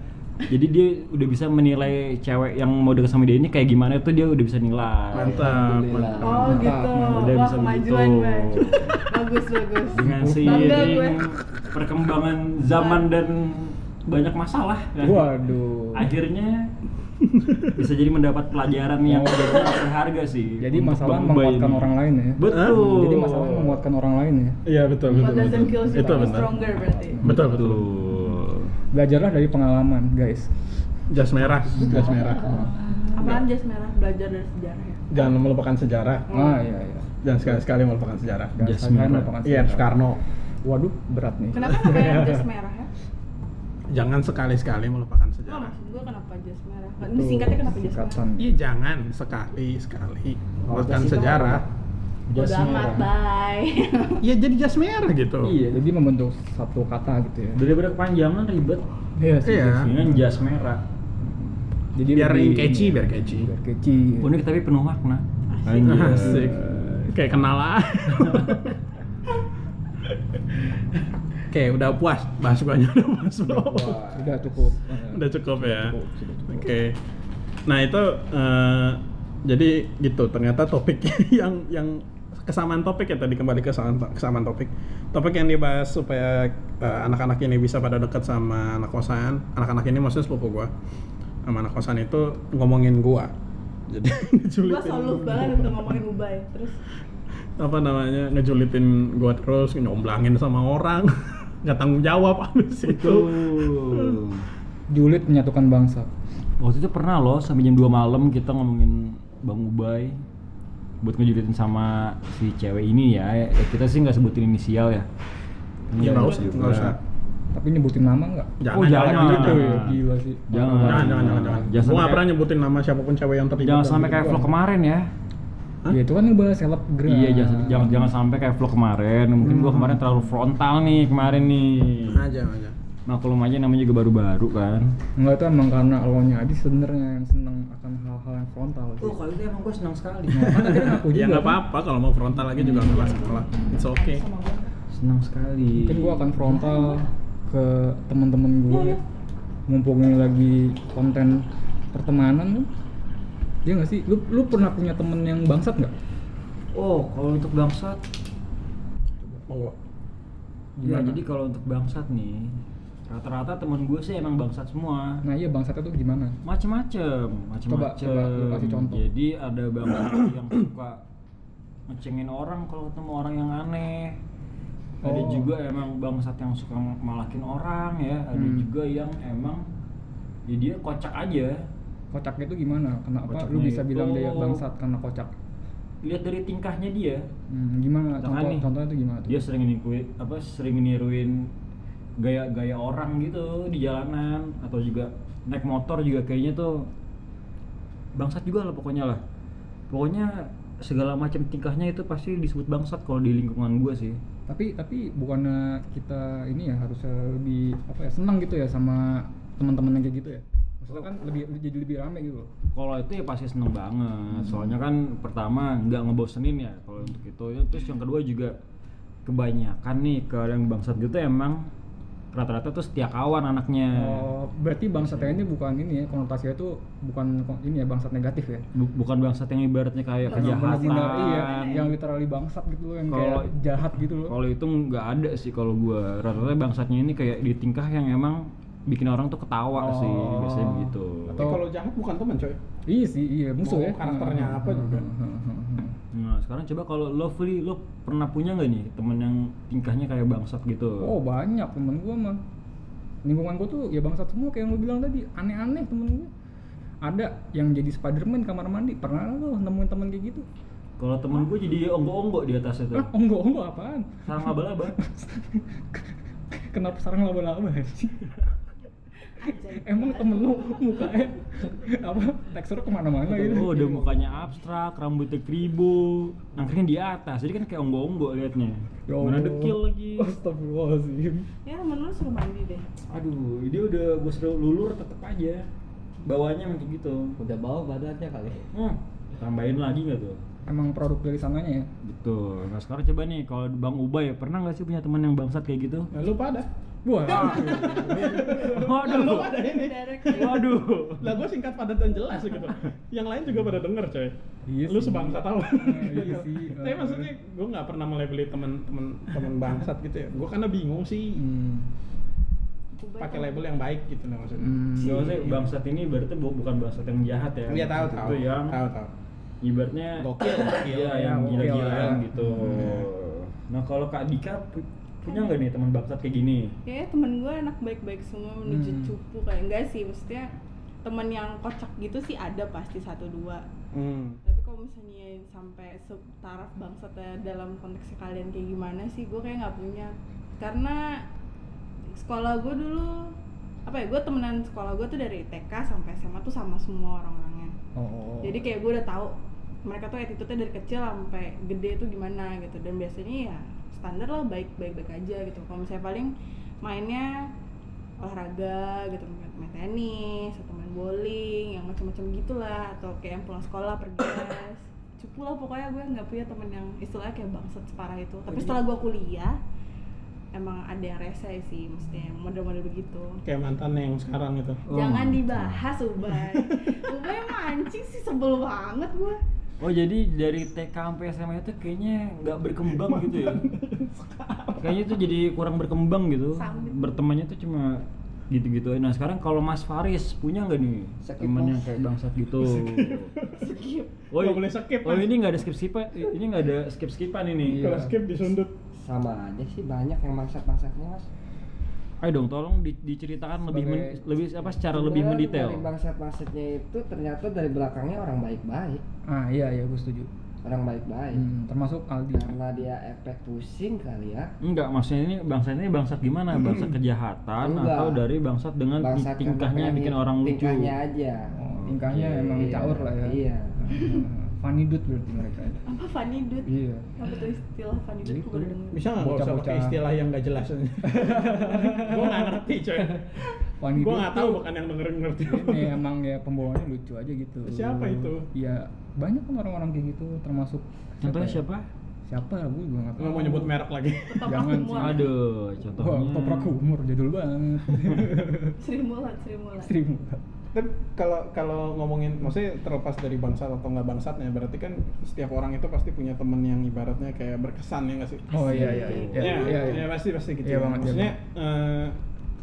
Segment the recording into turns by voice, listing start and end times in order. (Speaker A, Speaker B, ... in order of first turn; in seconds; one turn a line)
Speaker A: 0.5-9.1
Speaker B: 5.1-6.1
Speaker C: 5.1-6.6
Speaker D: 6.2-11.2
Speaker E: 6.4-7.4
Speaker A: 9.9-15.4
Speaker E: 9.9-11.0
Speaker D: 12.7-13.1
Speaker E: 15.0-16.1
Speaker A: 15.9-16.7
Speaker B: 17.3-17.7
Speaker A: 17.7-23.8
Speaker E: 19.0-19.8
Speaker E: 20.6-24.6
Speaker B: 22.4-22.8
Speaker B: 24.6-26.6
Speaker D: 25.1-27.2
Speaker E: 25.1-28.0
Speaker B: 27.2-27.9
Speaker A: 27.2-28.7
Speaker E: 28.9-30.5
Speaker B: 31.1-32.6
Speaker E: 31.7-32.8
Speaker D: 33.1-35.0
Speaker B: 35.1-36.2
Speaker D: 36.3-36.6
Speaker E: 36.3-37.1
Speaker B: 37.2-38.5
Speaker E: 38.5-40.0
Speaker A: 38.6-39.3
Speaker B: 39.4-40.2
Speaker E: 40.6-42.3
Speaker D: 41.5-42.9
Speaker B: 41.9-42.1
Speaker B: 43.9-45.7
Speaker D: 45.5-48.3
Speaker E: 47.0-48.5
Speaker B: 48.4-51.6
Speaker C: 50.7-51.6
Speaker A: 52.3-53.1
Speaker D: 52.3-54.2
Speaker B: 54.2-55.5
Speaker A: 55.5-55.8
Speaker E: 55.5-57.6
Speaker A: 57.5-58.8
Speaker E: 59.2-60.1
Speaker B: 59.4-59.9
Speaker A: 59.7-60.8
Speaker E: 61.2-64.3
Speaker B: 62.1-63.5
Speaker A: 64.2-66.9
Speaker D: 65.5-66.1
Speaker B: 65.8-68.7
Speaker E: 66.1-66.9
Speaker B: 71.5-74.0
Speaker A: 73.5-74.5
Speaker E: 73.8-76.7
Speaker B: 75.1-75.9
Speaker B: 76.5-76.9
Speaker B: 77.7-90.7
Speaker B: 91.4-93.3
Speaker B: 93.9-95.9
Speaker D: 94.6-96.8
Speaker B: 97.6-104.2
Speaker A: 102.8-104.5
Speaker E: 104.9-106.1
Speaker A: 106.6-110.2
Speaker A: 111.0-115.1
Speaker A: 115.9-117.0
Speaker B: 116.0-117.0
Speaker E: 116.0-116.5
Speaker E: 117.5-121.5
Speaker B: 118.6-119.8
Speaker A: 118.7-122.3
Speaker B: 120.8-124.5
Speaker A: 123.6-125.1
Speaker E: 125.9-128.1
Speaker A: 127.0-132.3
Speaker E: 129.4-130.2
Speaker B: 132.1-132.8
Speaker A: 133.1-134.9
Speaker E: 135.1-139.2
Speaker A: 139.0-140.7
Speaker E: 140.3-141.6
Speaker B: 140.5-144.2
Speaker E: 142.5-143.8
Speaker A: 142.6-143.1
Speaker D: 143.0-144.7
Speaker A: 144.9-146.9
Speaker E: 145.8-149.0
Speaker E: 149.7-152.7
Speaker E: 153.6-155.9
Speaker A: 156.7-158.0
Speaker B: 159.3-159.8
Speaker E: 160.8-161.2
Speaker A: 160.8-165.2
Speaker E: 165.2-166.4
Speaker A: 166.4-171.0
Speaker E: 167.7-169.1
Speaker A: 171.9-174.2
Speaker E: 175.0-175.5
Speaker A: 175.0-179.7
Speaker E: 178.3-178.7
Speaker A: 180.5-181.6
Speaker E: 182.1-185.3
Speaker A: 183.3-184.6
Speaker A: 186.0-187.2
Speaker E: 187.5-189.4
Speaker A: 188.2-188.6
Speaker A: 189.3-191.5
Speaker A: 192.2-196.9
Speaker A: 198.2-199.2
Speaker A: 199.9-204.2
Speaker E: 204.5-212.5
Speaker A: 212.7-218.5
Speaker E: 214.4-214.7
Speaker A: 219.2-221.7
Speaker A: 222.3-224.3
Speaker E: 223.9-228.7
Speaker A: 224.9-225.4
Speaker A: 228.7-231.6
Speaker D: 230.3-231.9
Speaker E: 230.3-234.4
Speaker A: 233.1-233.5
Speaker A: 234.2-241.5
Speaker E: 239.8-241.6
Speaker B: 241.3-242.6
Speaker E: 242.9-245.9
Speaker B: 243.6-245.1
Speaker A: 246.1-251.1
Speaker E: 251.0-252.4
Speaker E: 253.2-256.3
Speaker E: 257.0-260.4
Speaker A: 261.0-263.1
Speaker E: 262.9-268.3
Speaker A: 264.2-265.0
Speaker D: 269.4-271.3
Speaker E: 269.8-274.3
Speaker A: 273.2-280.3
Speaker E: 279.1-281.5
Speaker D: 281.6-282.8
Speaker A: 283.1-285.7
Speaker A: 286.2-287.4
Speaker C: 287.4-288.7
Speaker A: 288.7-290.4
Speaker E: 290.6-291.9
Speaker A: 292.0-296.1
Speaker B: 296.1-296.7
Speaker E: 297.0-298.7
Speaker B: 297.2-300.6
Speaker A: 297.2-301.4
Speaker D: 297.4-298.0
Speaker D: 299.2-300.7
Speaker B: 301.2-304.3
Speaker E: 304.7-307.3
Speaker B: 304.9-311.4
Speaker E: 311.4-311.9
Speaker D: 313.0-313.6
Speaker B: 313.2-315.6
Speaker E: 314.6-315.5
Speaker A: 315.0-318.8
Speaker B: 317.7-319.1
Speaker A: 319.6-326.8
Speaker B: 320.2-323.1
Speaker E: 321.0-323.0
Speaker D: 325.2-325.6
Speaker D: 326.9-330.5
Speaker E: 328.6-329.1
Speaker D: 331.0-333.6
Speaker B: 333.9-334.4
Speaker D: 334.4-341.2
Speaker D: 342.2-343.3
Speaker D: 343.9-347.7
Speaker E: 347.9-348.6
Speaker D: 348.4-349.3
Speaker D: 349.8-357.5
Speaker D: 358.2-369.6
Speaker D: 370.5-373.4
Speaker B: 373.4-374.8
Speaker A: 374.9-375.8
Speaker D: 374.9-379.4
Speaker B: 376.3-376.9
Speaker A: 379.8-383.6
Speaker B: 382.9-385.0
Speaker A: 384.8-393.3
Speaker D: 386.5-387.2
Speaker C: 391.2-391.9
Speaker B: 392.6-393.7
Speaker D: 393.5-394.2
Speaker A: 394.3-397.9
Speaker B: 394.3-395.3
Speaker E: 397.6-398.2
Speaker B: 397.7-398.7
Speaker C: 398.9-401.3
Speaker A: 402.2-405.9
Speaker E: 403.6-404.6
Speaker C: 404.9-409.0
Speaker E: 409.3-410.3
Speaker C: 410.6-411.4
Speaker E: 411.3-412.6
Speaker C: 412.3-414.5
Speaker A: 414.6-420.9
Speaker C: 417.6-418.2
Speaker C: 419.0-421.5
Speaker E: 421.5-425.8
Speaker C: 422.1-423.8
Speaker D: 425.9-429.1
Speaker E: 426.6-427.1
Speaker E: 428.2-430.0
Speaker B: 428.9-436.0
Speaker E: 431.1-433.3
Speaker E: 433.8-434.6
Speaker E: 435.4-441.6
Speaker B: 437.6-438.4
Speaker A: 441.2-441.9
Speaker E: 442.3-443.7
Speaker B: 443.2-444.5
Speaker D: 444.3-445.3
Speaker E: 444.4-445.3
Speaker A: 444.9-446.8
Speaker E: 445.8-448.8
Speaker D: 448.8-449.9
Speaker E: 449.8-450.4
Speaker B: 450.7-462.2
Speaker E: 458.5-461.4
Speaker D: 458.6-460.0
Speaker A: 459.0-459.5